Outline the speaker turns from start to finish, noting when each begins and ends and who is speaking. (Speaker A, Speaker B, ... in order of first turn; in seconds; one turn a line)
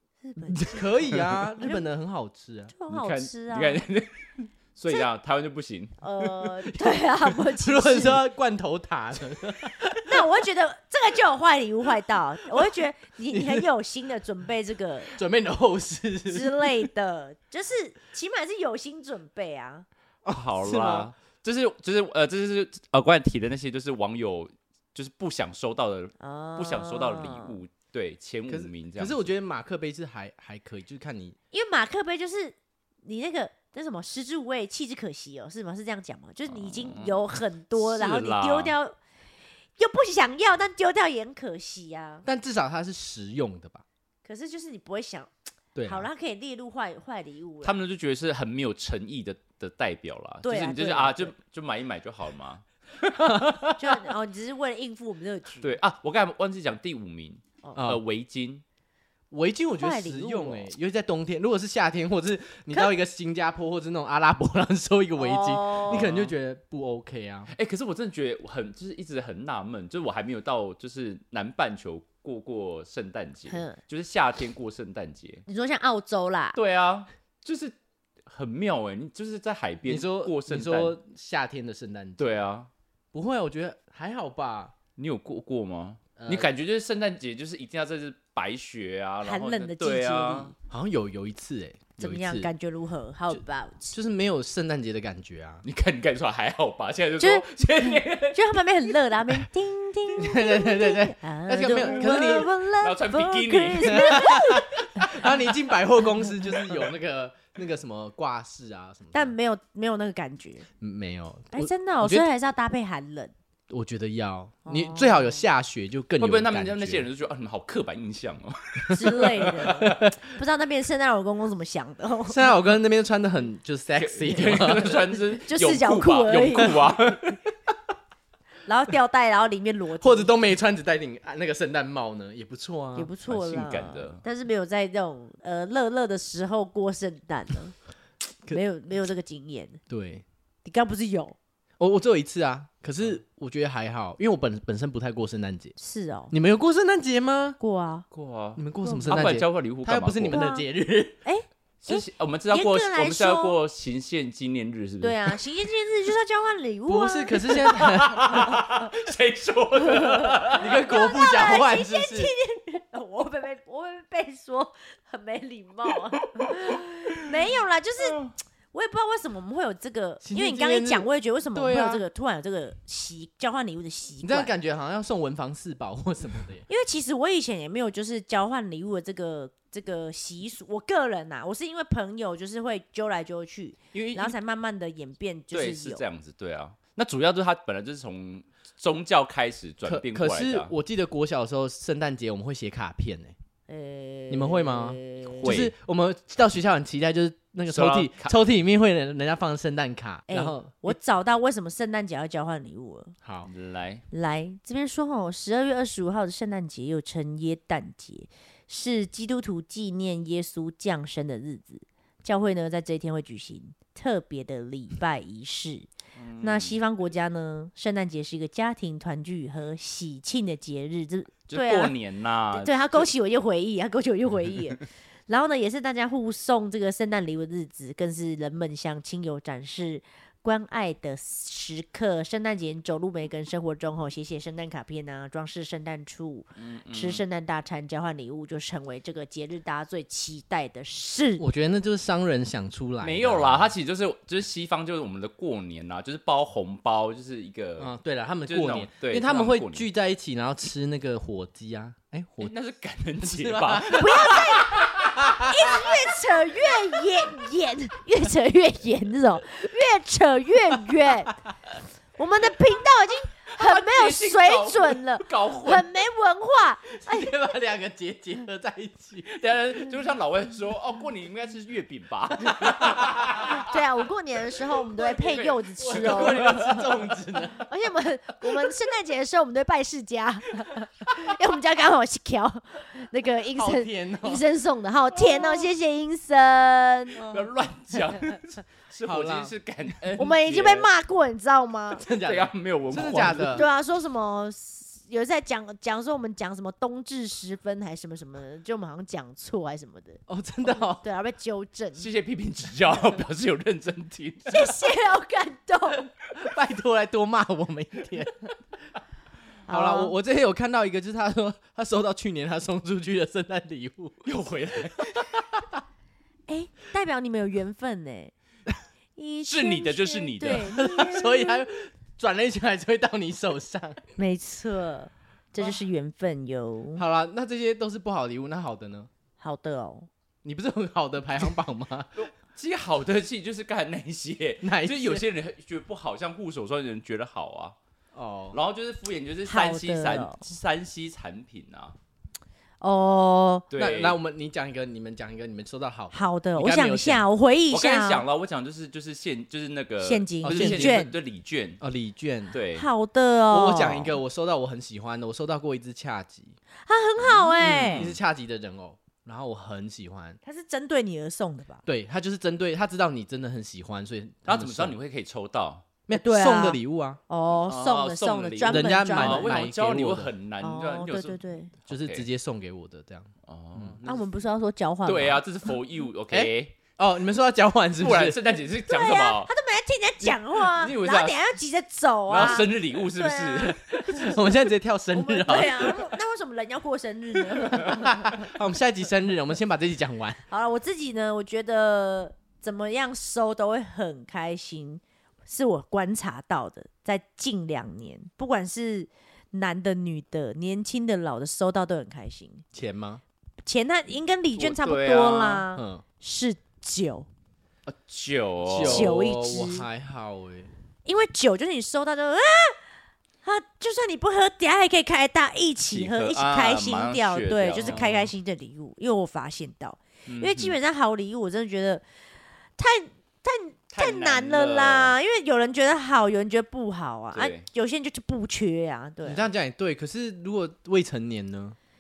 Speaker A: 0.2-1.8
Speaker B: 0.6-2.7
Speaker A: 2.7-3.8
Speaker C: 2.9-6.0
Speaker A: 6.0-8.2
Speaker B: 6.7-10.2
Speaker A: 10.0-15.2
Speaker B: 13.3-13.7
Speaker B: 15.2-16.9
Speaker A: 16.3-19.9
Speaker C: 20.3-29.3
Speaker B: 20.6-21.1
Speaker A: 26.2-27.6
Speaker B: 28.5-31.4
Speaker A: 31.5-39.0
Speaker C: 36.5-37.2
Speaker C: 37.8-38.8
Speaker A: 39.8-42.3
Speaker B: 42.2-43.8
Speaker A: 44.2-45.3
Speaker B: 45.8-46.1
Speaker A: 45.9-47.8
Speaker C: 47.6-53.8
Speaker A: 50.4-51.3
Speaker B: 53.2-53.6
Speaker A: 53.8-55.8
Speaker C: 55.6-58.6
Speaker A: 57.6-57.9
Speaker B: 57.8-58.0
Speaker B: 59.3-67.5
Speaker A: 59.8-60.7
Speaker A: 65.2-66.1
Speaker C: 65.9-66.3
Speaker C: 67.5-75.5
Speaker A: 73.5-73.8
Speaker A: 75.5-76.6
Speaker C: 76.5-77.7
Speaker C: 78.3-81.0
Speaker B: 79.9-82.4
Speaker C: 82.2-82.7
Speaker B: 83.1-84.7
Speaker C: 85.0-90.5
Speaker B: 86.2-86.5
Speaker A: 89.2-90.5
Speaker B: 90.7-92.5
Speaker A: 92.0-94.0
Speaker B: 93.3-95.6
Speaker C: 95.6-98.9
Speaker A: 97.2-105.2
Speaker B: 100.2-102.5
Speaker C: 101.8-104.4
Speaker B: 103.8-109.3
Speaker A: 109.1-110.7
Speaker B: 110.8-112.3
Speaker A: 111.5-113.3
Speaker B: 113.7-117.1
Speaker A: 114.7-115.4
Speaker C: 116.2-120.0
Speaker A: 118.9-122.5
Speaker B: 119.6-120.2
Speaker B: 122.3-125.2
Speaker C: 124.0-127.4
Speaker A: 125.5-127.0
Speaker A: 128.7-130.4
Speaker B: 130.0-133.1
Speaker A: 133.0-137.8
Speaker C: 133.3-134.2
Speaker A: 138.5-139.8
Speaker B: 139.9-140.2
Speaker A: 140.7-141.4
Speaker B: 141.8-145.8
Speaker A: 145.8-146.3
Speaker B: 146.3-147.6
Speaker A: 147.6-148.1
Speaker C: 148.1-150.4
Speaker B: 148.6-151.2
Speaker A: 148.8-149.2
Speaker A: 150.3-150.7
Speaker A: 151.2-153.6
Speaker C: 151.8-155.4
Speaker A: 155.0-157.7
Speaker B: 156.9-158.6
Speaker C: 157.5-160.8
Speaker A: 159.8-168.2
Speaker B: 160.5-162.3
Speaker C: 166.3-167.1
Speaker C: 168.0-168.3
Speaker A: 168.7-174.5
Speaker B: 170.2-172.0
Speaker B: 174.2-176.7
Speaker A: 176.7-186.0
Speaker C: 183.9-184.3
Speaker C: 185.5-190.7
Speaker B: 189.8-193.3
Speaker A: 193.7-195.5
Speaker B: 194.3-201.0
Speaker C: 195.4-195.7
Speaker C: 197.7-198.3
Speaker A: 200.3-203.2
Speaker B: 203.2-203.5
Speaker C: 203.5-204.0
Speaker A: 204.1-215.9
Speaker C: 216.2-216.8
Speaker A: 216.4-221.9
Speaker C: 221.5-223.1
Speaker A: 222.5-241.4
Speaker C: 236.6-237.2
Speaker B: 241.4-243.7
Speaker C: 243.0-247.9
Speaker B: 247.8-252.5
Speaker C: 248.5-249.9
Speaker C: 252.4-255.3
Speaker B: 253.2-256.0
Speaker A: 253.9-261.3
Speaker A: 262.2-267.4
Speaker C: 263.5-265.9
Speaker B: 267.0-269.9
Speaker C: 269.4-273.7
Speaker B: 272.5-273.5
Speaker A: 273.4-276.6
Speaker C: 275.0-277.1
Speaker B: 275.8-277.7
Speaker A: 277.6-287.2
Speaker B: 283.6-284.4
Speaker C: 285.2-285.7
Speaker B: 287.2-287.5
Speaker C: 287.2-290.9
Speaker B: 289.1-289.6
Speaker A: 290.2-292.1
Speaker B: 291.9-293.7
Speaker C: 292.2-293.7
Speaker A: 293.5-302.1
Speaker B: 300.3-301.0
Speaker C: 302.0-304.8
Speaker A: 304.5-306.1
Speaker B: 306.4-308.5
Speaker A: 309.7-310.1
Speaker B: 309.7-314.3
Speaker C: 314.2-315.4
Speaker B: 315.0-315.6
Speaker A: 316.5-318.3
Speaker A: 319.2-321.6
Speaker C: 319.5-320.8
Speaker B: 320.4-324.0
Speaker A: 324.2-327.0
Speaker B: 327.0-329.1
Speaker A: 329.4-330.1
Speaker B: 330.4-332.1
Speaker C: 332.2-337.8
Speaker B: 334.6-335.2
Speaker B: 338.1-338.6
Speaker C: 338.5-342.0
Speaker A: 339.4-340.5
Speaker A: 342.8-343.7
Speaker C: 343.7-344.2
Speaker B: 343.8-347.2
Speaker A: 346.1-348.2
Speaker C: 347.7-351.8
Speaker A: 350.0-351.1
Speaker B: 350.4-351.1
Speaker B: 351.8-352.6
Speaker C: 352.5-352.9
Speaker A: 352.8-354.2
Speaker B: 353.5-356.6
Speaker A: 356.9-358.1
Speaker C: 357.3-358.2
Speaker B: 357.6-360.4
Speaker A: 360.4-361.8
Speaker B: 361.9-365.0
Speaker C: 364.5-365.9
Speaker B: 366.1-367.2
Speaker A: 366.1-369.7
Speaker C: 367.7-372.3
Speaker B: 368.6-370.3
Speaker A: 370.6-371.7
Speaker B: 371.9-374.0
Speaker C: 373.4-374.3
Speaker A: 374.1-375.4
Speaker C: 375.1-376.8
Speaker B: 376.3-378.4
Speaker C: 378.0-379.5
Speaker A: 378.9-384.4
Speaker C: 380.2-381.4
Speaker C: 382.3-384.2
Speaker B: 384.1-386.0
Speaker A: 385.1-388.5
Speaker B: 387.7-390.4
Speaker A: 390.5-402.6
Speaker B: 402.7-403.2
Speaker A: 403.6-407.3
Speaker C: 404.5-405.6
Speaker B: 405.8-406.0
Speaker C: 407.9-409.2
Speaker B: 408.7-410.7
Speaker A: 408.8-409.9
Speaker A: 411.1-412.8
Speaker A: 413.4-422.0
Speaker C: 415.9-418.3
Speaker B: 417.8-418.1
Speaker C: 420.3-420.8
Speaker A: 422.8-429.5
Speaker C: 423.9-425.2
Speaker C: 427.3-427.7
Speaker B: 429.2-431.8